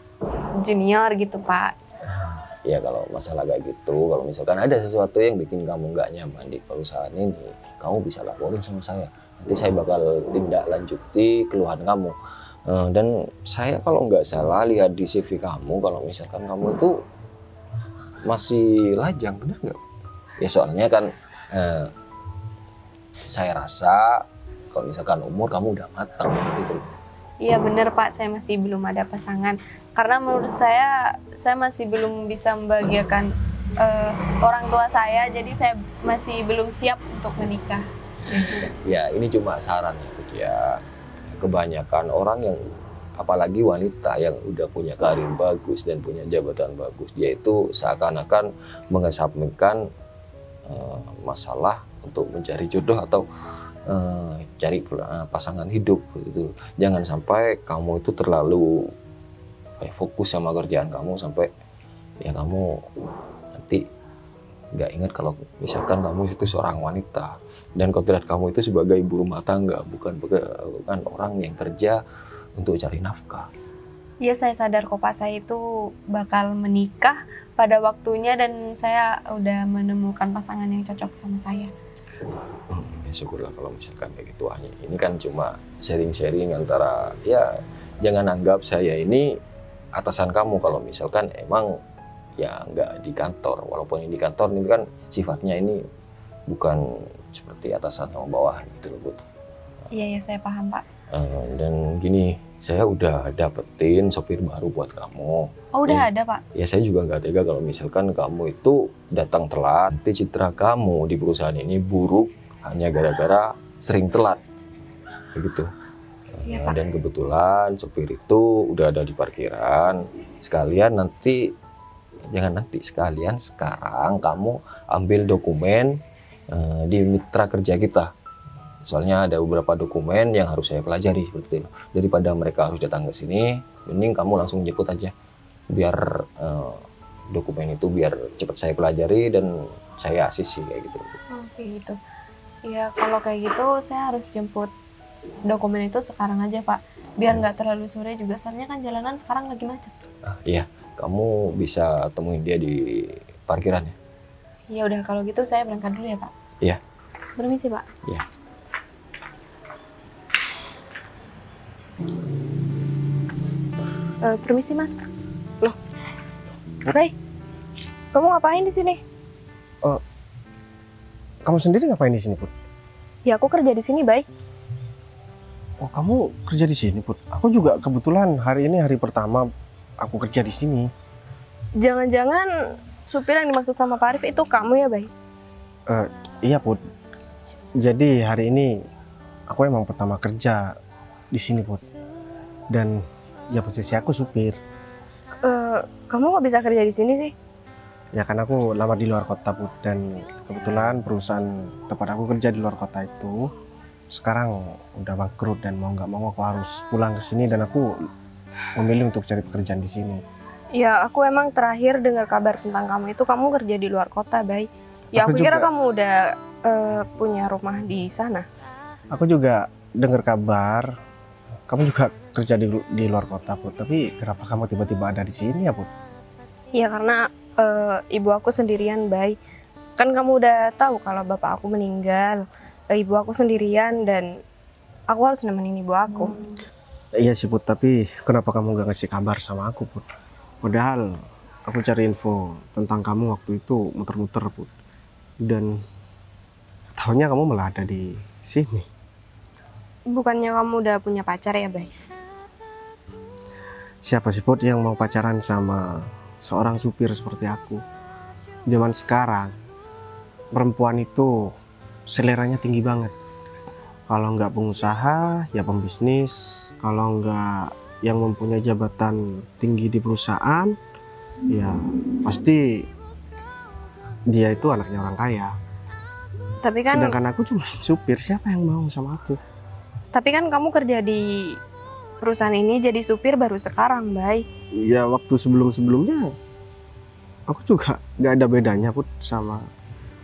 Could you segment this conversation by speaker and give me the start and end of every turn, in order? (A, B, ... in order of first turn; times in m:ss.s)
0:00.6-0:01.8 A
0:02.0-0:12.2 B
0:12.7-0:17.0 B
0:18.2-0:19.8 B
0:20.4-0:21.9 B
0:23.3-0:27.0 B
0:27.4-0:38.6 A
0:38.4-0:40.8 B
0:41.3-0:42.6 B
0:43.2-0:49.8 B
0:50.7-0:53.3 B
0:53.9-0:58.9 B
0:59.8-1:01.5 B
1:02.2-1:02.9 B
1:03.5-1:03.8 B
1:04.7-1:12.0 B
1:12.6-1:13.5 B
1:14.2-1:21.7 A
1:22.7-1:29.3 B
1:29.9-1:31.8 B
1:32.4-1:35.8 B
1:36.5-1:39.2 B
1:39.9-1:40.8 A
1:41.1-1:54.4 B
1:45.7-1:46.4 A
1:55.4-1:55.7 B
1:56.3-2:01.5 B
1:56.5-1:56.8 A
2:02.3-2:08.1 B
2:08.9-2:15.1 B
2:15.7-2:21.2 B
2:21.3-2:22.0 A
2:22.6-2:24.7 A
2:25.5-2:30.0 A
2:30.2-2:34.0 B
2:34.7-2:36.3 A
2:37.4-2:37.9 A
2:44.2-2:45.0 A
2:46.9-2:47.1 A
2:48.1-2:49.0 A
2:51.5-2:52.5 C
2:53.2-2:54.3 A
2:55.8-2:59.5 C
3:00.0-3:00.9 C
3:01.8-3:02.5 A
3:03.1-3:05.1 A
3:05.9-3:06.8 C
3:07.8-3:08.7 C
3:09.5-3:10.7 C
3:11.3-3:11.9 C
3:12.7-3:13.0 C
3:13.5-3:14.6 C
3:15.4-3:17.3 A
3:18.2-3:23.5 C
3:24.1-3:27.9 C
3:28.8-3:30.2 C
3:30.8-3:38.5 A
3:35.1-3:35.7 C
3:39.1-3:40.9 C
3:41.7-3:45.9 C
3:46.7-3:49.4 A
3:50.0-3:54.4 A
3:55.1-3:56.4 A
3:57.2-4:00.1 C
4:00.6-4:04.7 C
4:05.4-4:05.8 C
4:07.0-4:08.9 C
4:10.1-4:11.9 A
4:14.0-4:17.8 C
4:18.7-4:19.5 C
4:20.6-4:21.4 C
4:22.1-4:23.1 C
4:24.1-4:30.8 C
4:31.5-4:32.9 C
4:34.3-4:35.6 C
4:36.6-4:37.2 A
4:36.9-4:39.4 C
4:40.1-4:41.6 A
4:42.2-4:44.4 A
4:44.8-4:46.3 C
4:47.5-4:49.7 C